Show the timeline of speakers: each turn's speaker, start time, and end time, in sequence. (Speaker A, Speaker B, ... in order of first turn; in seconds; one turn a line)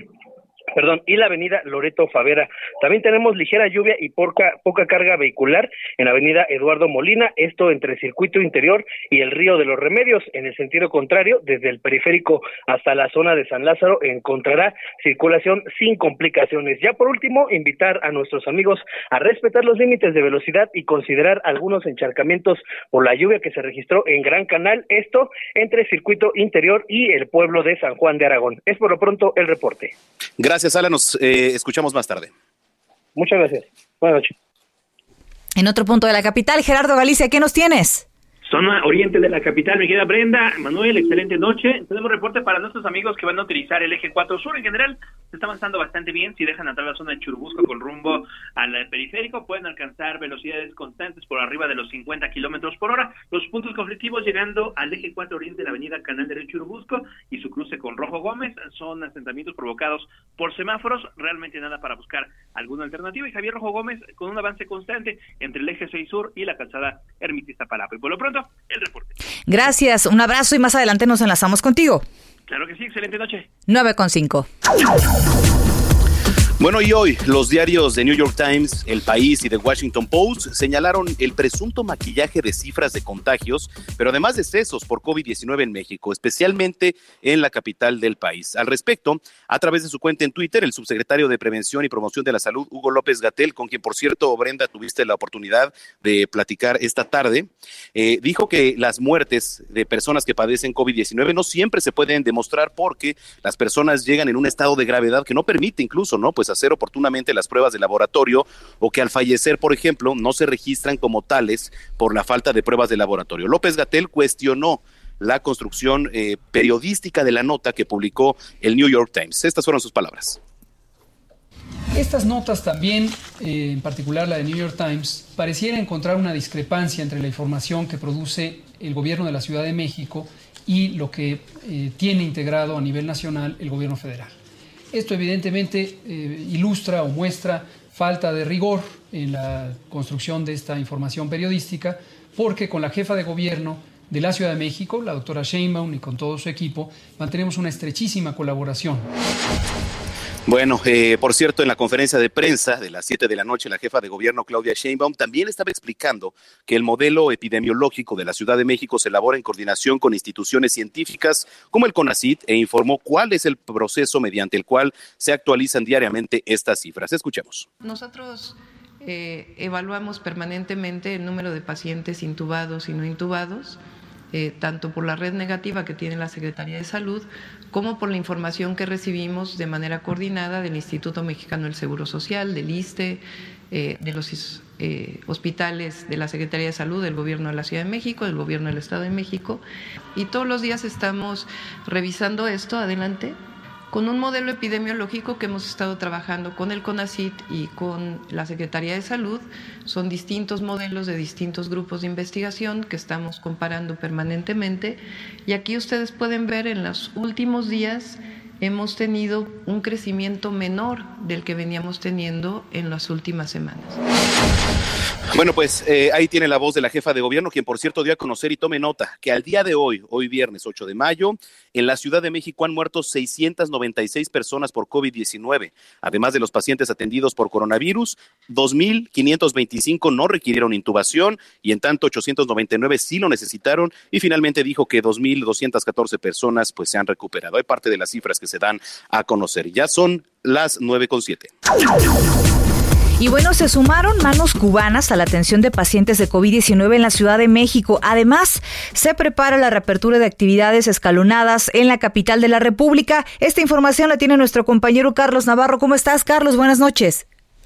Speaker A: 0.8-29.9
Speaker B: 30.4-32.3
Speaker A: 33.2-34.3
Speaker C: 35.6-38.0
Speaker D: 38.5-69.1
Speaker C: 69.5-72.0
Speaker D: 72.5-73.5
Speaker C: 73.7-74.5
Speaker B: 76.6-120.4
Speaker E: 121.9-134.3
Speaker E: 134.9-149.1
Speaker B: 150.5-167.7
Speaker F: 167.8-173.8
Speaker F: 174.3-189.6
Speaker F: 190.2-193.4
Speaker F: 193.9-214.0
Speaker B: 215.3-241.5
Speaker C: 243.2-257.2